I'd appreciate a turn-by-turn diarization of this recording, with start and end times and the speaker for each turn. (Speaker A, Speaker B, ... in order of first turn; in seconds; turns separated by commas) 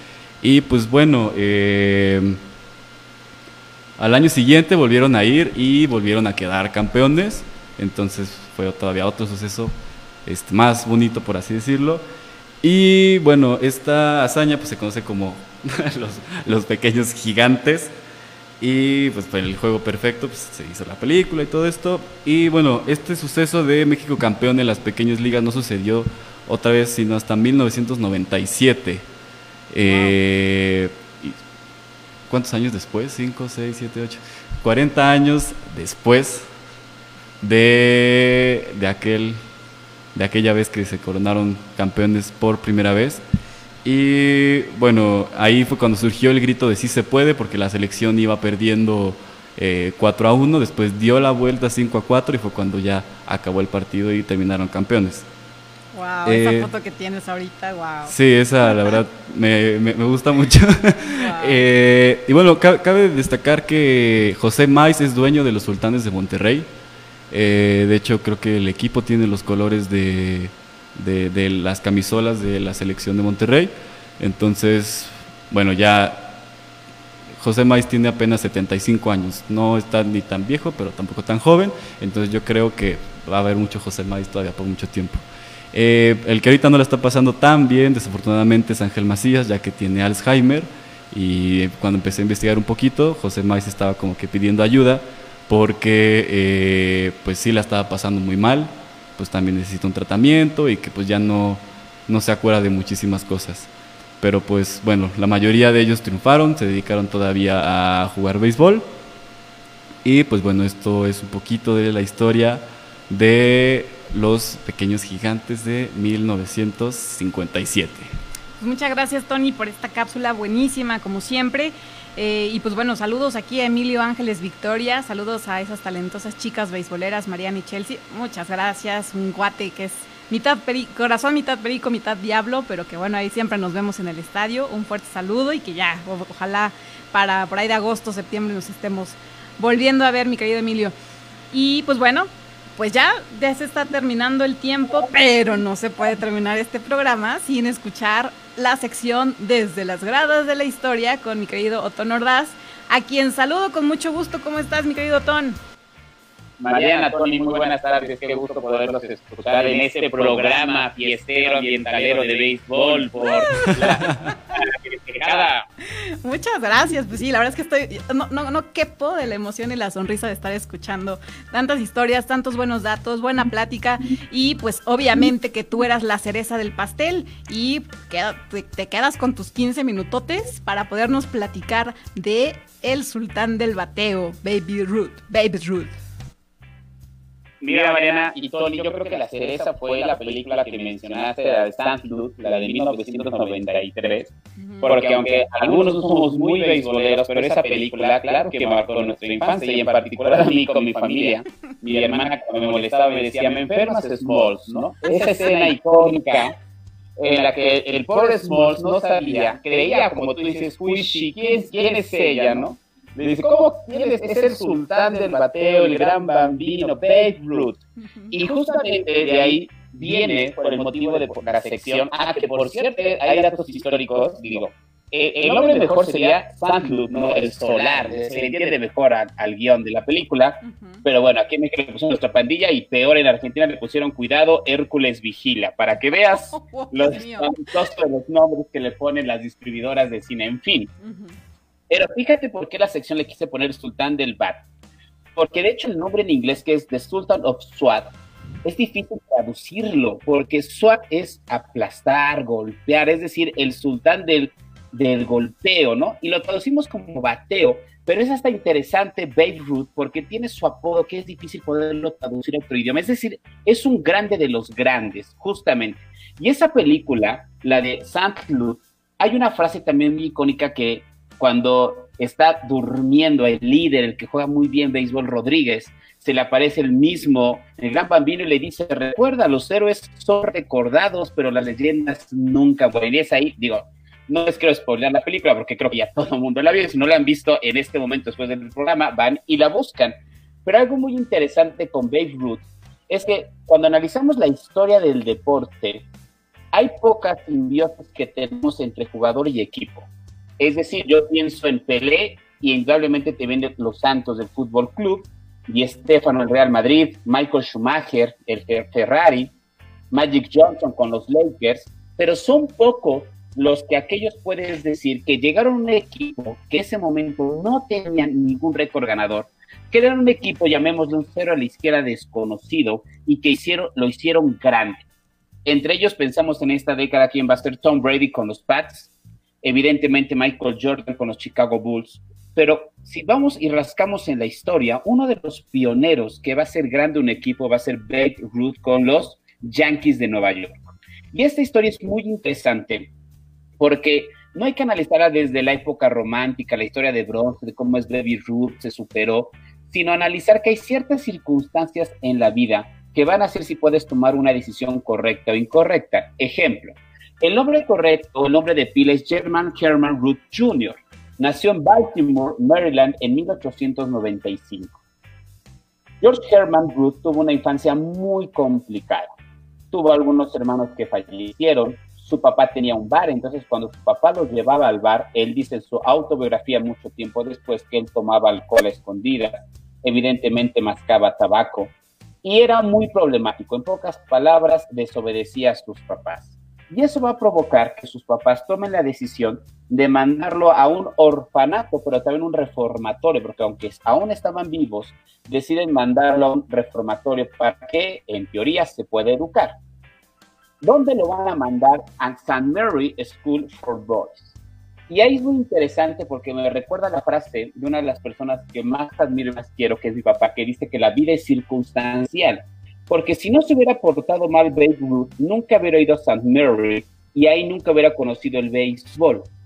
Speaker A: 0.4-2.4, Speaker A: 4.0-12.1, Speaker A: 12.6-17.9, Speaker A: 18.6-29.1, Speaker A: 29.7-31.4, Speaker B: 29.9-30.1, Speaker A: 32.3-36.5, Speaker A: 37.4-39.4, Speaker A: 40.1-43.2, Speaker A: 43.8-55.3, Speaker B: 55.9-58.1, Speaker A: 56.2-56.7, Speaker A: 58.1-66.7, Speaker B: 58.7-58.9, Speaker B: 61.0-61.6, Speaker A: 67.3-76.4, Speaker A: 77.4-103.7, Speaker A: 104.2-108.9, Speaker A: 110.0-118.1, Speaker B: 118.6-140.9, Speaker B: 141.5-155.6, Speaker C: 156.6-165.7, Speaker B: 163.5-164.3, Speaker B: 166.2-186.0, Speaker C: 187.6-206.5, Speaker B: 194.6-194.9, Speaker C: 207.2-217.8, Speaker B: 218.0-218.3, Speaker C: 218.3-240.9, Speaker B: 230.6-231.0, Speaker B: 236.3-237.7, Speaker B: 241.0-241.4, Speaker C: 241.9-244.6, Speaker C: 245.3-248.1, Speaker C: 248.6-296.0, Speaker C: 296.7-300.1, Speaker C: 300.6-309.5, Speaker C: 310.1-325.0, Speaker C: 325.6-329.1, Speaker C: 329.6-343.1, Speaker C: 343.8-365.0, Speaker C: 366.2-369.3, Speaker C: 369.9-381.9, Speaker C: 382.4-399.8, Speaker C: 400.8-404.5, Speaker C: 405.1-419.5